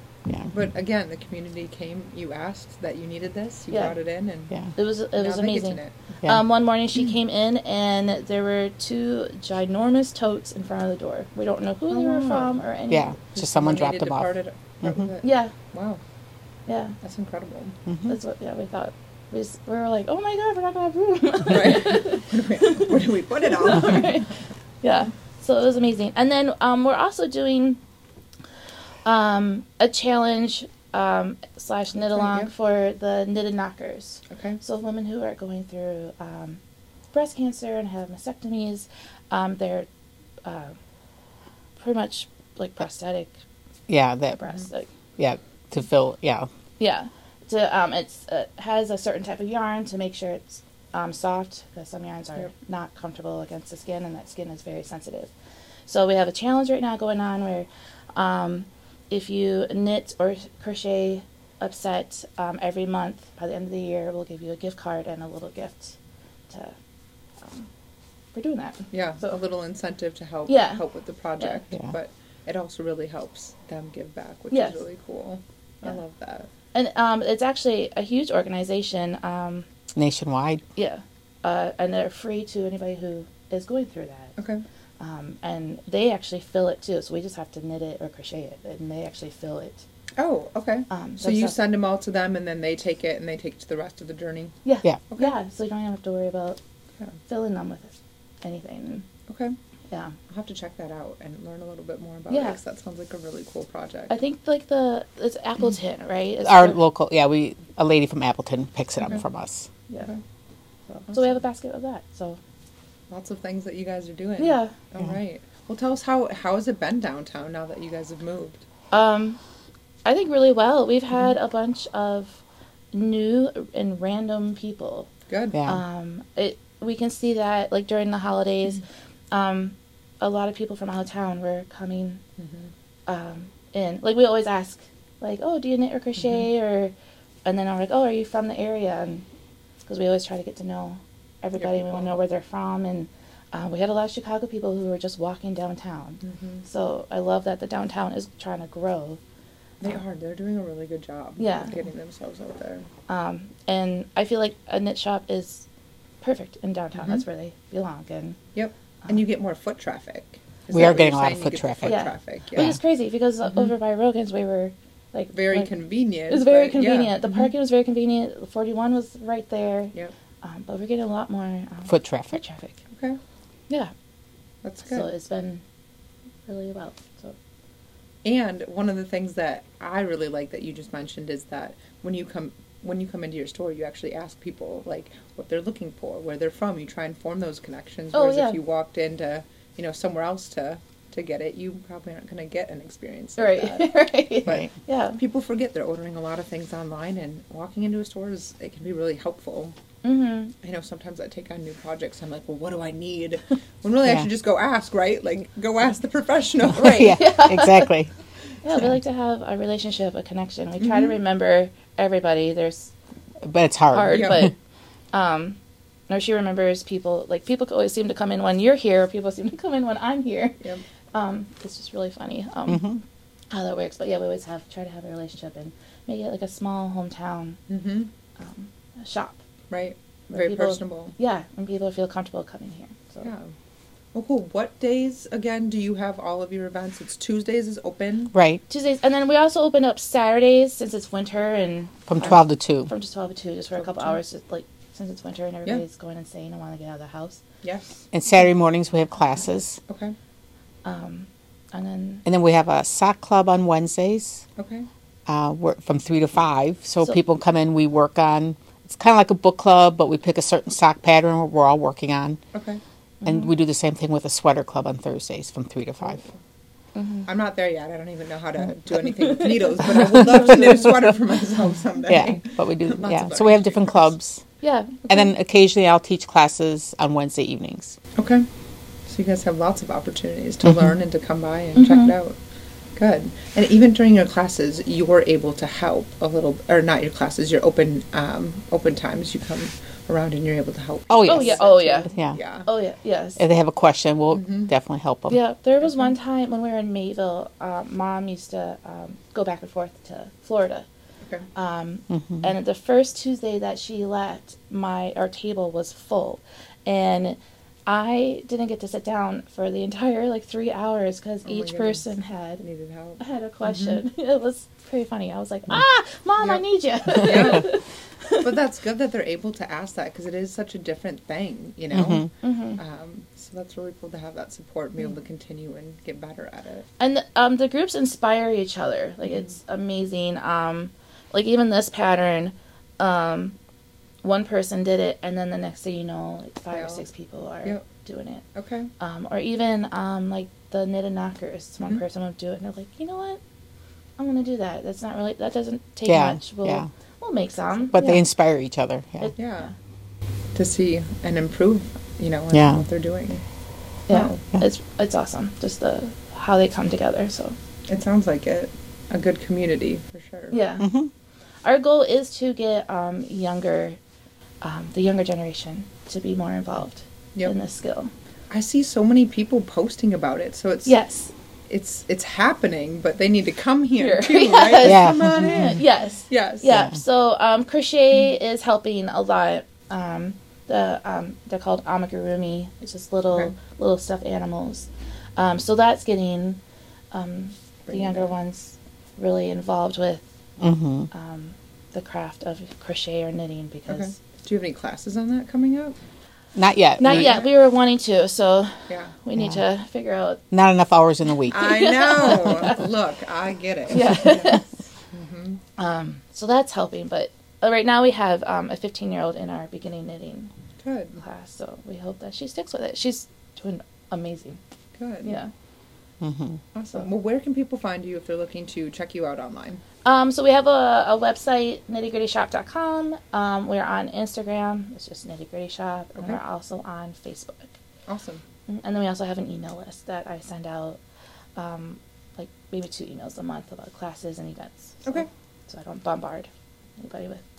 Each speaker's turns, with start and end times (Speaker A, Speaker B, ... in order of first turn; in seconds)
Speaker A: 0.3-0.5, 12.9-15.1, 17.9-18.1, 43.9-44.4, 45.2-46.5, 80.0-80.6, 106.4-109.7, 125.5-125.8, 160.7-162.0, 171.9-172.4, 206.7-208.1, 213.4-214.5, 222.7-223.0, 238.3-238.6, 242.1-242.9, 248.1-249.8, 252.2-254.4, 255.3-262.4, 263.2-266.2, 269.8-271.1, 272.1-274.4, 275.1-278.0, 280.6-280.9, 291.1-292.4, 293.4-295.4, 302.1-302.5, 321.9-322.3, 346.1-346.9, 347.9-349.3, 352.5-352.9, 360.8-361.1, 374.8-375.8, 390.6-391.1, 396.5-397.4, 400.5-401.9, 416.2-416.6
Speaker B: 0.5-4.5, 5.2-6.0, 11.9-12.6, 13.3-16.0, 17.0-17.8, 21.5-24.3, 32.0-32.5, 34.3-34.6, 68.9-76.5, 84.4-84.6, 90.2-95.3, 99.3-99.5, 100.3-104.1, 111.0-111.4, 113.1-118.6, 125.3-125.6, 132.4-132.7, 141.6-142.1, 146.2-146.6, 149.8-152.9, 158.5-162.8, 165.3-167.3, 172.9-173.2, 174.6-175.1, 178.2-199.7, 200.6-207.2, 210.8-211.2, 227.7-228.1, 229.7-231.2, 233.2-233.5, 234.1-238.3, 243.8-244.2, 247.6-247.9, 249.9-250.2, 254.6-254.9, 262.5-262.8, 267.2-274.1, 278.1-278.4, 279.1-282.4, 282.9-291.7, 292.3-292.7, 294.3-294.7, 295.8-296.1, 311.4-312.0, 312.6-314.0, 317.2-317.6, 318.4-326.9, 336.7-337.0, 338.5-338.9, 349.3-349.7, 350.5-353.4, 354.1-354.4, 357.9-360.6, 368.5-371.0, 371.7-376.8, 387.9-388.3, 393.9-396.0, 398.9-399.2, 401.5-405.6, 410.8-411.2, 414.9-415.4, 416.7-419.8, 428.1-428.4
Speaker C: 3.7-4.0, 4.7-13.1, 15.2-15.5, 16.7-17.0, 18.1-27.8, 29.0-36.6, 37.1-39.9, 40.4-40.7, 41.8-43.4, 44.4-44.9, 46.8-55.3, 55.9-66.0, 67.4-67.7, 68.3-69.4, 70.5-70.8, 74.5-74.8, 76.7-79.7, 80.8-84.3, 85.0-89.8, 90.9-91.6, 94.6-96.6, 97.2-99.1, 99.9-100.2, 102.3-102.6, 104.1-106.8, 111.1-112.4, 114.4-114.7, 118.9-119.4, 120.0-125.1, 125.6-132.2, 133.1-136.9, 137.4-139.2, 139.8-149.2, 151.4-151.8, 153.1-155.6, 156.2-158.4, 161.8-172.8, 174.8-175.6, 176.4-177.3, 188.1-188.6, 193.4-195.2, 200.0-200.5, 206.8-207.9, 208.6-212.9, 213.9-214.5, 215.1-215.6, 216.1-220.6, 221.1-222.9, 223.5-227.6, 228.4-229.4, 230.3-233.3, 238.7-247.4, 250.8-252.2, 263.2-263.5, 266.9-267.3, 269.0-270.6, 274.6-275.2, 281.8-282.1, 291.2-292.1, 292.6-293.4, 295.3-300.9, 301.5-312.6, 313.2-318.5, 322.4-322.8, 327.0-333.6, 334.2-338.4, 339.0-343.4, 344.2-348.2, 349.2-349.7, 354.1-357.6, 360.5-360.9, 361.6-364.0, 364.6-368.1, 370.9-371.3, 374.0-390.2, 391.1-394.1, 397.0-400.4, 401.6-402.8, 403.9-404.7, 405.8-410.5, 411.2-414.6, 415.2-415.5, 420.0-427.7, 428.7-431.0, 431.6-437.4